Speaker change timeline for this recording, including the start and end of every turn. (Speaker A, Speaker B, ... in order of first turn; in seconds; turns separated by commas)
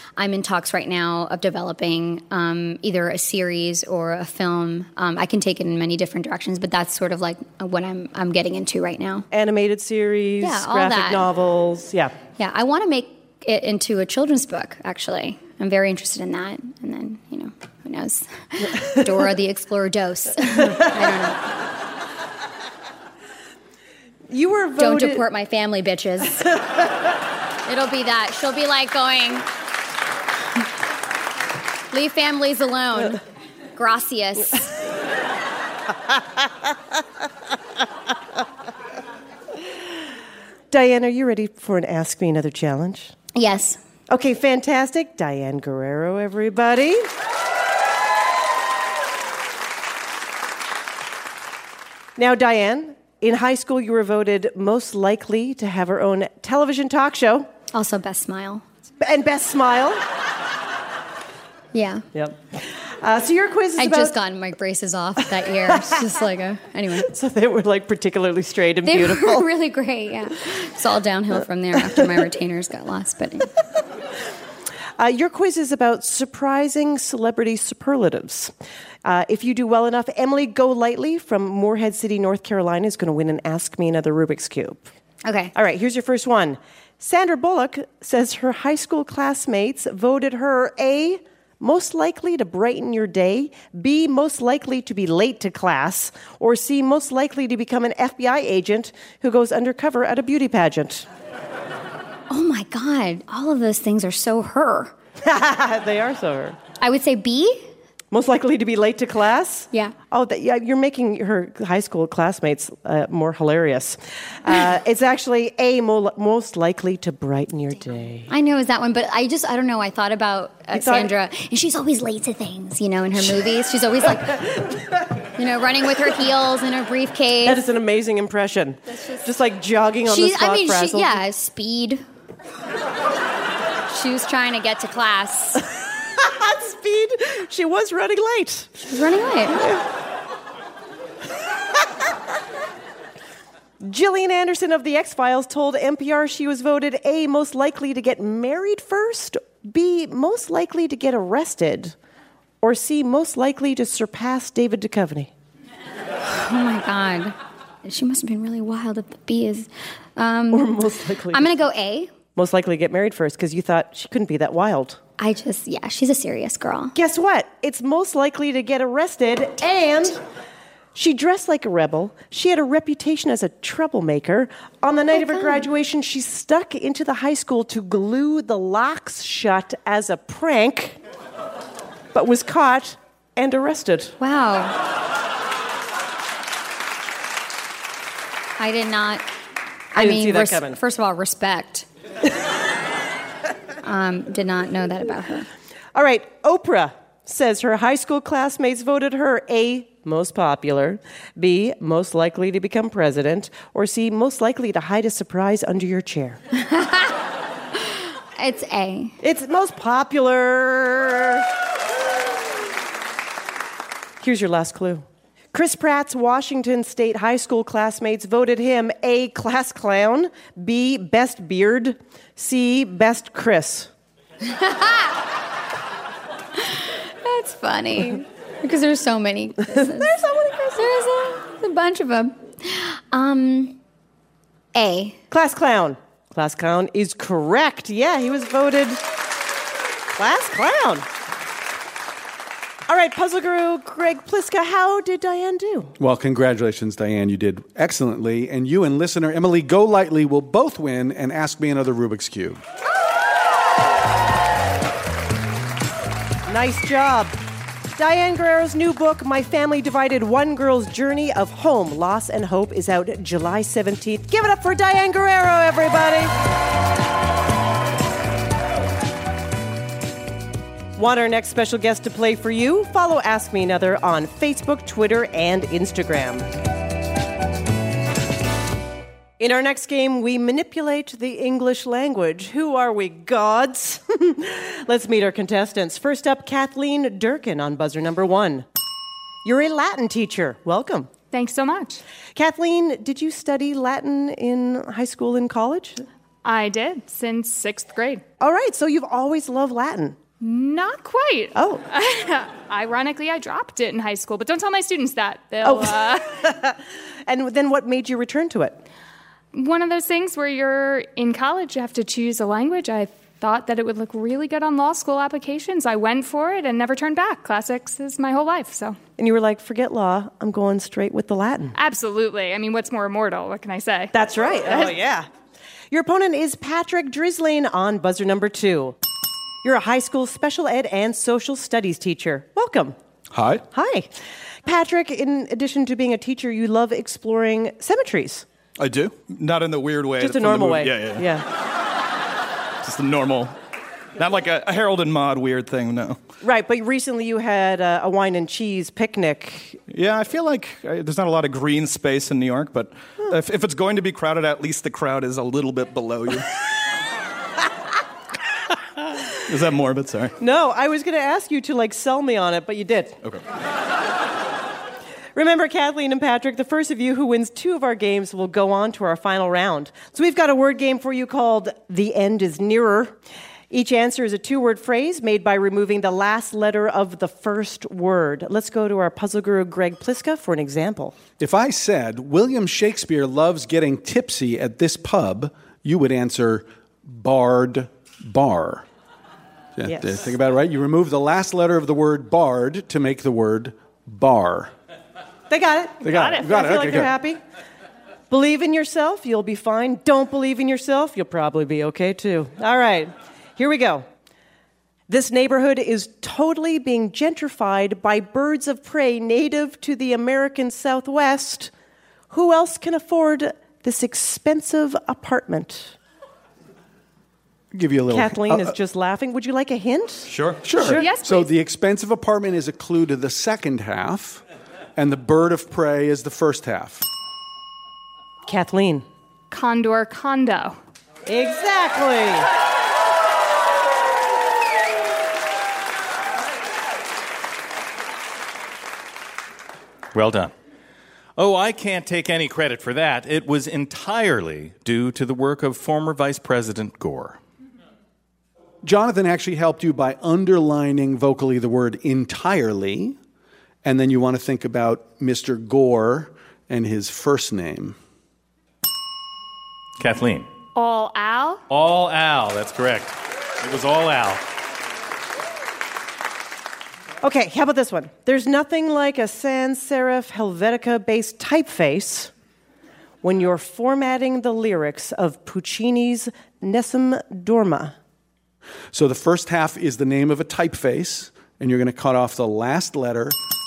Speaker A: 0.2-9.3, Speaker B: 9.3-12.1, Speaker A: 10.4-11.2, Speaker A: 12.4-21.4, Speaker B: 24.3-25.2, Speaker A: 24.8-26.5, Speaker A: 27.6-29.5, Speaker A: 31.9-33.2, Speaker A: 33.7-34.7, Speaker B: 40.7-43.1, Speaker A: 43.4-43.8, Speaker B: 44.1-47.1, Speaker B: 52.1-57.5, Speaker A: 57.7-58.6, Speaker B: 59.0-60.0, Speaker A: 61.7-62.1, Speaker B: 62.1-64.1, Speaker A: 63.8-67.1, Speaker B: 67.0-69.5, Speaker A: 68.8-73.5, Speaker B: 75.0-78.5, Speaker B: 79.0-84.9, Speaker A: 85.2-85.5, Speaker B: 85.5-101.0, Speaker A: 102.3-104.9, Speaker B: 105.2-106.6, Speaker A: 106.8-107.6, Speaker B: 108.1-118.3, Speaker A: 118.3-124.5, Speaker B: 120.7-121.1, Speaker A: 125.4-127.6, Speaker B: 127.4-131.2, Speaker A: 128.9-129.2, Speaker A: 130.1-132.0, Speaker A: 133.9-135.6, Speaker B: 136.2-138.8, Speaker A: 138.8-139.7, Speaker B: 143.8-151.9, Speaker B: 152.6-155.3, Speaker A: 156.2-160.8, Speaker B: 160.5-161.5, Speaker A: 161.3-162.1, Speaker B: 162.3-165.0, Speaker A: 165.2-166.9, Speaker B: 166.9-170.2, Speaker B: 170.9-181.0, Speaker A: 175.3-175.6, Speaker B: 182.1-184.1, Speaker A: 184.2-184.8, Speaker A: 188.6-189.2, Speaker A: 189.9-191.9, Speaker B: 190.0-190.8, Speaker A: 193.8-195.5, Speaker B: 195.9-206.4, Speaker A: 206.6-207.1, Speaker A: 208.4-209.2, Speaker B: 209.2-211.4, Speaker B: 214.2-223.9, Speaker A: 224.5-225.1, Speaker A: 226.6-233.8, Speaker B: 229.9-230.4, Speaker A: 234.7-235.2, Speaker B: 235.3-239.0, Speaker B: 240.2-241.1, Speaker B: 242.9-245.9, Speaker C: 246.0-252.6, Speaker B: 256.5-257.4, Speaker B: 257.9-266.3, Speaker B: 271.0-276.5, Speaker B: 279.4-288.6, Speaker B: 289.4-291.1, Speaker D: 291.3-292.0, Speaker B: 292.3-296.0, Speaker D: 296.4-298.2, Speaker B: 298.4-300.2, Speaker D: 300.4-306.4, Speaker B: 301.6-301.8, Speaker B: 305.6-308.8, Speaker D: 309.5-319.0, Speaker B: 319.2-321.7, Speaker D: 321.7-324.1, Speaker B: 324.1-325.3, Speaker D: 324.6-325.0, Speaker B: 325.9-328.9, Speaker B: 329.6-332.9, Speaker E: 333.3-333.6, Speaker B: 333.7-334.1, Speaker B: 334.6-338.4, Speaker E: 338.8-341.3, Speaker B: 340.2-341.4, Speaker E: 342.8-343.5, Speaker E: 344.2-346.2, Speaker B: 346.4-349.8, Speaker E: 349.9-356.5, Speaker E: 359.5-360.3, Speaker B: 360.4-363.1, Speaker B: 365.3-373.2, Speaker B: 373.7-381.2, Speaker C: 381.4-388.9, Speaker C: 389.8-394.7, Speaker B: 389.9-390.2, Speaker B: 395.5-397.4, Speaker C: 396.0-397.1, Speaker D: 396.1-396.4, Speaker B: 398.3-404.1, Speaker B: 405.1-411.7, Speaker B: 412.3-415.9, Speaker C: 417.7-418.7, Speaker B: 418.1-420.3, Speaker E: 420.2-420.8, Speaker C: 420.6-424.4, Speaker D: 420.9-421.5, Speaker C: 424.9-427.1, Speaker B: 428.5-429.1, Speaker D: 429.5-430.8, Speaker B: 431.3-432.5, Speaker F: 440.1-440.5, Speaker F: 441.4-447.4, Speaker C: 448.8-453.2, Speaker C: 453.8-458.0, Speaker F: 460.0-460.5, Speaker D: 460.7-461.6, Speaker F: 461.7-464.4, Speaker B: 467.2-472.3, Speaker B: 473.2-477.9, Speaker C: 478.9-483.4